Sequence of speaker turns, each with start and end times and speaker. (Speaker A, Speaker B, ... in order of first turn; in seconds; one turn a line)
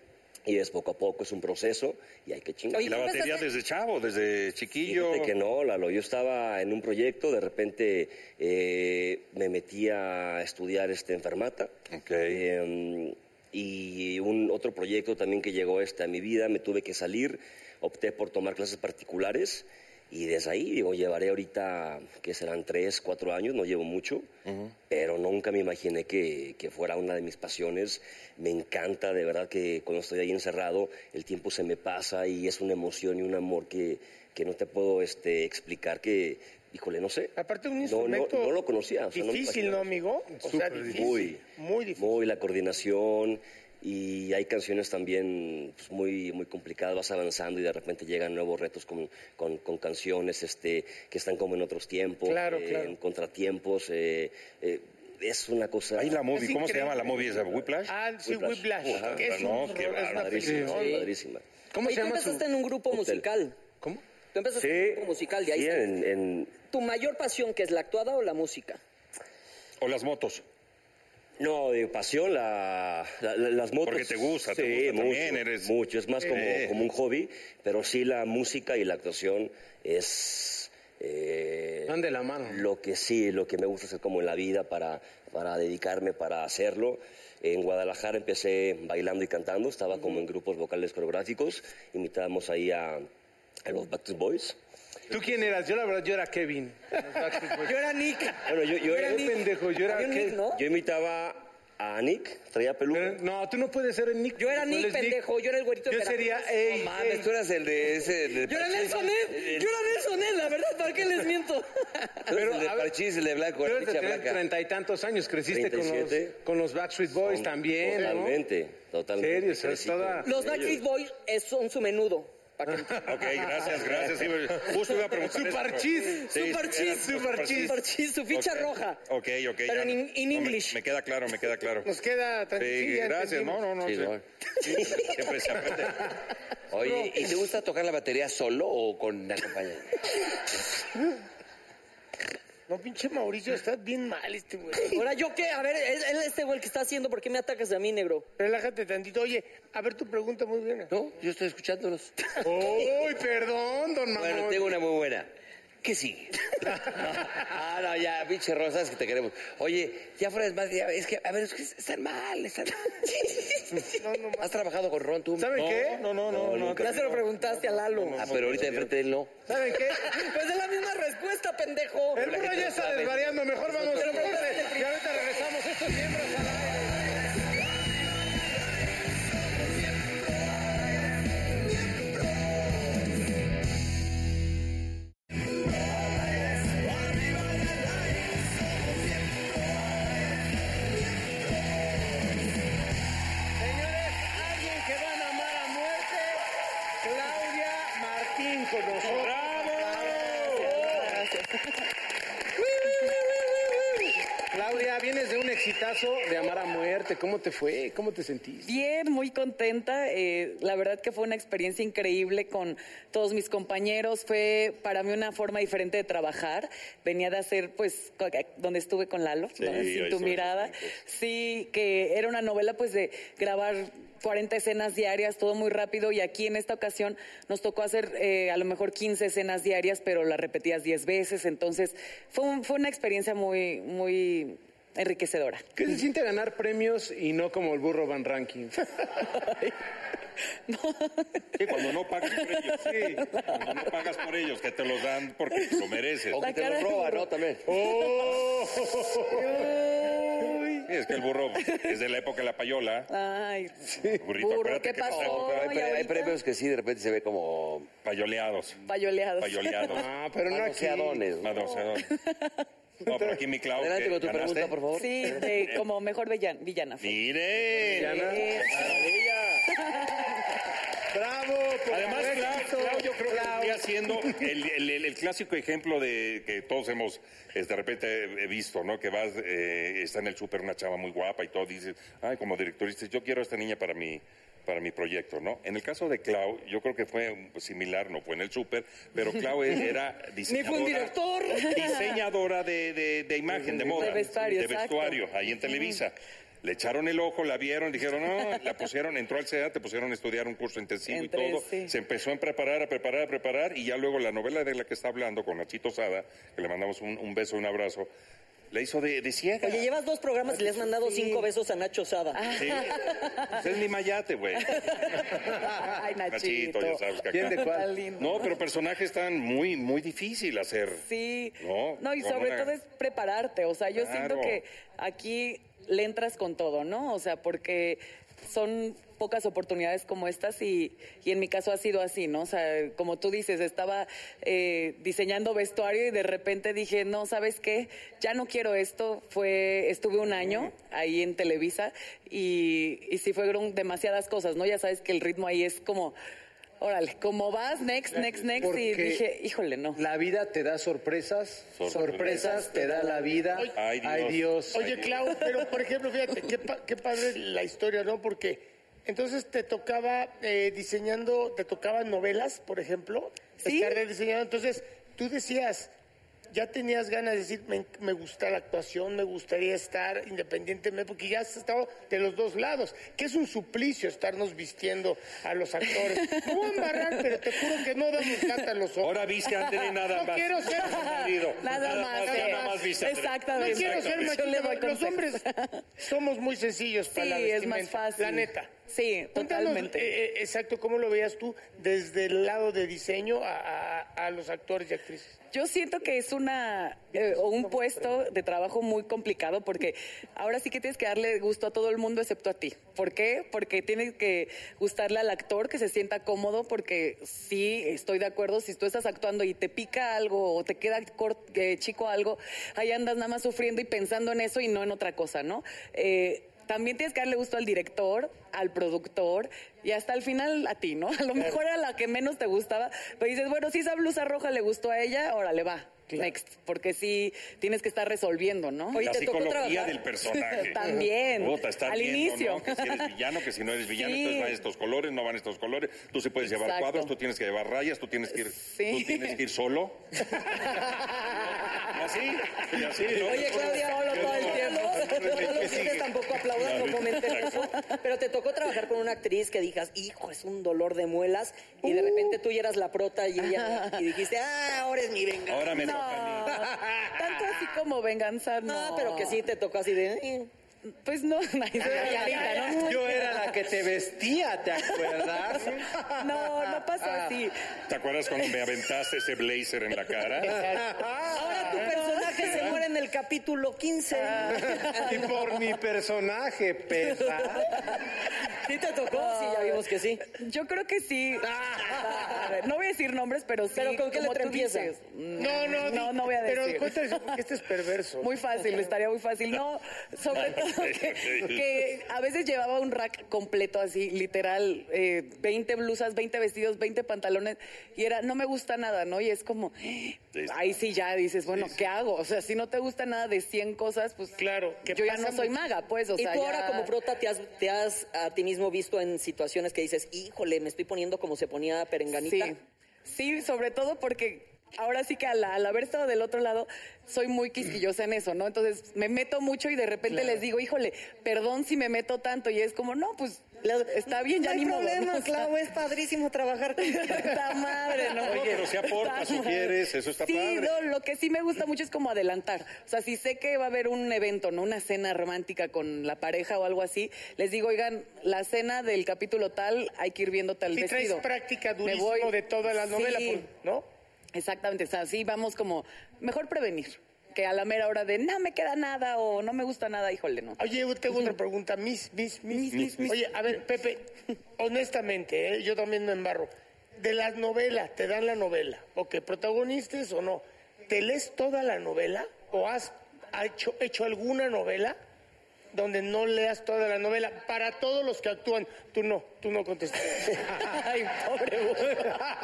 Speaker A: 0.5-3.0
Speaker B: 2.7-3.5
Speaker C: 2.8-5.3
Speaker A: 4.8-11.7
Speaker C: 11.9-12.4
Speaker A: 12.3-24.3
Speaker C: 24.5-24.7
Speaker A: 24.9-40.0
Speaker D: 37.4-38.6
Speaker D: 39.1-42.2
Speaker E: 40.4-41.2
Speaker A: 40.8-41.4
Speaker A: 42.0-56.3
Speaker D: 52.3-53.0
Speaker C: 56.0-57.9
Speaker D: 56.3-57.2
Speaker A: 57.1-57.7
Speaker D: 57.9-61.1
Speaker A: 58.2-59.3
Speaker C: 58.9-60.6
Speaker A: 60.1-61.4
Speaker E: 60.5-60.9
Speaker E: 61.7-62.4
Speaker B: 61.8-63.6
Speaker A: 62.9-63.2
Speaker B: 64.3-65.9
Speaker A: 64.5-66.6
Speaker B: 66.7-68.8
Speaker C: 69.8-70.4
Speaker A: 71.4-93.1
Speaker C: 73.8-76.8
Speaker E: 81.9-82.6
Speaker A: 93.7-94.6
Speaker E: 95.1-97.9
Speaker B: 97.6-100.6
Speaker A: 98.5-99.4
Speaker E: 98.9-100.4
Speaker A: 100.5-103.2
Speaker E: 102.9-105.2
Speaker B: 104.4-106.6
Speaker E: 105.9-107.3
Speaker F: 106.6-109.7
Speaker B: 108.5-112.2
Speaker E: 112.3-112.9
Speaker F: 112.3-114.4
Speaker E: 113.6-118.4
Speaker A: 115.5-116.4
Speaker A: 117.2-120.8
Speaker E: 119.2-120.3
Speaker B: 120.2-123.4
Speaker C: 123.1-127.8
Speaker E: 125.1-126.3
Speaker B: 126.0-129.0
Speaker E: 127.1-127.8
Speaker C: 128.3-131.9
Speaker B: 129.7-130.8
Speaker D: 131.8-133.7
Speaker C: 132.6-136.2
Speaker F: 133.8-134.2
Speaker F: 136.7-140.0
Speaker D: 136.8-137.1
Speaker D: 142.7-145.1
Speaker B: 144.9-148.3
Speaker D: 148.4-150.9
Speaker F: 150.9-152.8
Speaker E: 152.4-154.8
Speaker F: 154.2-155.3
Speaker F: 155.8-163.1
Speaker B: 163.2-163.5
Speaker D: 164.0-164.6
Speaker F: 164.4-165.7
Speaker E: 165.4-166.2
Speaker C: 165.5-168.9
Speaker A: 166.3-167.0
Speaker B: 166.8-168.2
Speaker F: 168.2-169.5
Speaker E: 169.5-170.2
Speaker B: 169.9-172.3
Speaker E: 172.2-176.9
Speaker F: 172.2-174.4
Speaker B: 173.9-175.3
Speaker E: 193.6-196.4
Speaker E: 197.0-201.2
Speaker C: 199.0-201.1
Speaker G: 200.6-201.8
Speaker E: 202.7-208.7
Speaker G: 208.7-235.7
Speaker C: 219.6-220.8
Speaker E: 235.8-238.8
Speaker G: 239.4-239.7
Speaker G: 240.7-243.9
Speaker C: 241.6-246.4
Speaker E: 242.8-243.2
Speaker G: 245.6-245.8
Speaker F: 246.3-247.6
Speaker G: 246.4-248.3
Speaker E: 247.7-249.7
Speaker G: 249.3-250.9
Speaker C: 250.9-253.1
Speaker G: 251.6-251.9
Speaker G: 253.1-256.4
Speaker C: 254.2-255.8
Speaker F: 255.1-257.9
Speaker C: 258.0-258.8
Speaker G: 258.9-260.0
Speaker C: 259.4-260.1
Speaker E: 259.9-261.3
Speaker F: 260.4-261.6
Speaker C: 261.4-262.1
Speaker G: 261.6-262.6
Speaker E: 263.1-263.4
Speaker C: 263.1-264.8
Speaker F: 263.7-265.8
Speaker G: 264.9-267.3
Speaker C: 265.4-265.8
Speaker C: 267.0-268.8
Speaker E: 267.8-269.1
Speaker G: 268.0-268.9
Speaker A: 268.8-269.6
Speaker G: 269.7-270.4
Speaker E: 271.1-274.4
Speaker C: 271.9-308.1
Speaker B: 290.5-292.1
Speaker G: 291.6-292.2
Speaker G: 293.7-296.0
Speaker G: 301.1-301.9
Speaker C: 308.7-309.9
Speaker B: 309.6-312.4
Speaker G: 311.1-311.4
Speaker G: 312.4-313.6
Speaker C: 312.6-312.9
Speaker C: 313.5-314.8
Speaker G: 314.6-317.0
Speaker C: 316.3-321.1
Speaker E: 317.3-317.9
Speaker G: 317.6-318.6
Speaker G: 321.1-346.2
Speaker C: 321.6-322.7
Speaker C: 323.9-324.6
Speaker G: 346.8-350.0
Speaker E: 348.6-349.2
Speaker E: 350.0-354.9
Speaker C: 351.8-352.7
Speaker C: 353.8-355.3
Speaker D: 354.7-365.9
Speaker G: 363.6-364.0
Speaker D: 366.5-379.1
Speaker G: 376.0-377.8
Speaker G: 378.3-378.6
Speaker C: 379.0-384.4
Speaker D: 380.0-383.0
Speaker G: 381.6-385.8
Speaker D: 383.5-385.4
Speaker D: 386.0-388.8
Speaker G: 387.1-390.1
Speaker D: 389.4-395.4
Speaker G: 395.5-429.1
Speaker B: 428.9-430.0
Speaker C: 429.0-430.8
Speaker G: 430.3-433.1
Speaker C: 431.3-440.1
Speaker G: 433.9-434.6
Speaker G: 436.4-437.1
Speaker G: 438.6-439.4
Speaker C: 441.9-445.8
Speaker B: 443.1-455.9
Speaker G: 443.9-445.6
Speaker E: 445.3-445.9
Speaker C: 446.6-447.7
Speaker G: 453.4-454.0
Speaker C: 455.5-456.6
Speaker G: 455.8-459.4
Speaker E: 456.6-457.1
Speaker B: 458.6-460.5
Speaker G: 461.0-463.4
Speaker E: 461.8-467.3
Speaker B: 461.9-462.9
Speaker G: 465.0-465.6
Speaker G: 466.2-467.6
Speaker C: 467.9-470.7
Speaker E: 470.5-471.5
Speaker B: 471.3-475.1
Speaker G: 471.9-472.4
Speaker G: 474.2-475.2
Speaker E: 474.5-477.7
Speaker B: 477.2-477.9
Speaker B: 478.6-480.2
Speaker G: 479.1-487.1
Speaker B: 483.8-484.9
Speaker D: 485.4-488.3
Speaker G: 488.2-506.9
Speaker C: 490.4-491.6
Speaker C: 500.4-500.7
Speaker D: 504.4-505.6
Speaker B: 506.2-512.5
Speaker G: 512.2-512.5
Speaker G: 513.1-525.5
Speaker B: 523.6-528.5
Speaker G: 526.8-541.3
Speaker C: 528.2-530.8
Speaker D: 540.7-543.9
Speaker G: 541.9-542.3
Speaker G: 542.9-543.5
Speaker G: 544.4-550.6
Speaker D: 550.6-565.0
Speaker C: 552.7-553.2
Speaker D: 565.7-570.4
Speaker G: 570.6-572.1